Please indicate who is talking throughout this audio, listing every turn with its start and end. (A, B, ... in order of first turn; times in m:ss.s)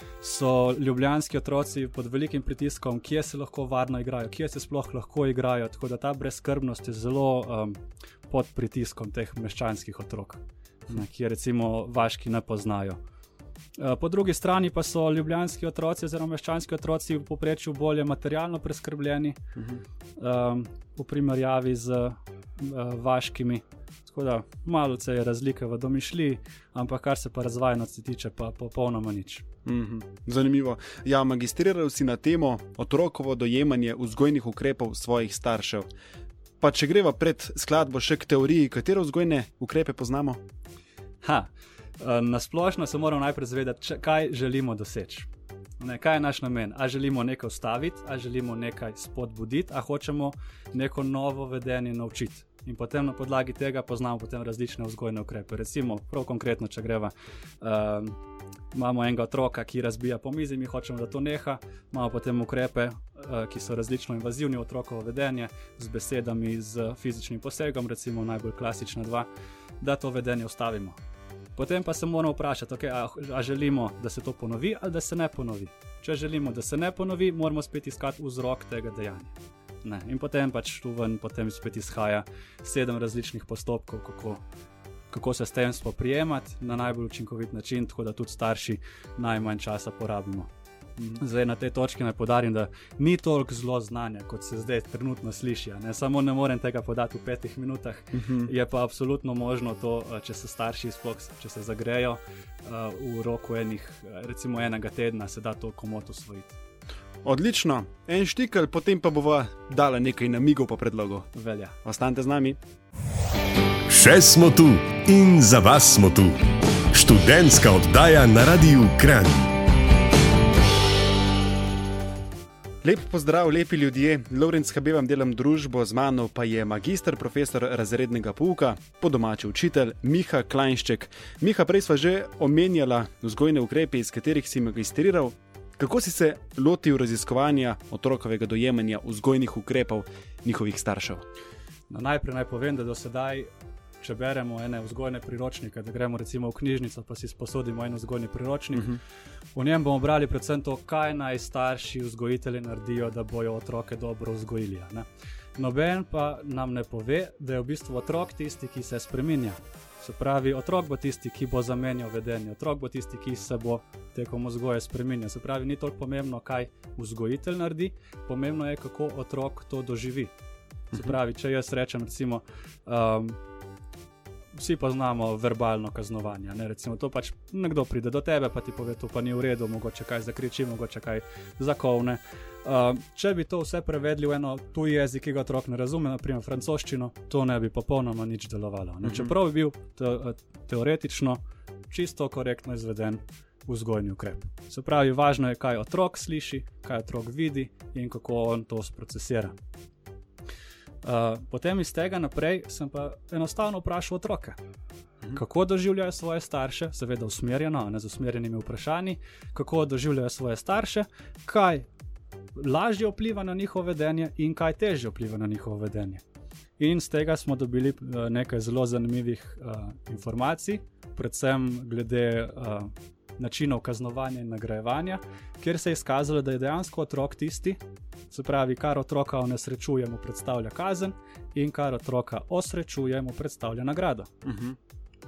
0:00.2-0:13.0 A
0:13.8-0:19.4 A
0:19.6-0:19.8 B
0:20.2-0:29.4 A
0:29.6-0:35.9 B
0:36.6-0:40.4 B
0:41.2-0:45.3 A
0:45.8-0:58.2 A
0:58.7-1:09.3 A
1:09.8-1:11.0 A
1:11.6-1:24.4 A
1:25.1-1:30.5 A
1:31.2-1:46.6 A
1:38.1-1:38.5 B
1:47.2-1:51.3 B
1:51.4-1:51.8 A
1:51.8-1:52.6 B
1:53.9-1:56.4 C
1:56.9-1:59.5 C
2:02.8-2:21.2 B
2:21.9-2:23.5 A
2:24.0-2:29.0 A
2:28.8-2:29.0 B
2:29.6-2:35.1 A
2:35.6-2:50.3 A
2:50.9-2:53.4 A
2:54.6-3:19.6 A
3:09.0-3:09.3 B
3:21.0-3:24.6 A
3:25.3-3:31.9 A
3:32.6-3:36.2 A
3:36.8-3:47.8 A
3:48.3-3:54.3 A
3:54.4-3:54.8 B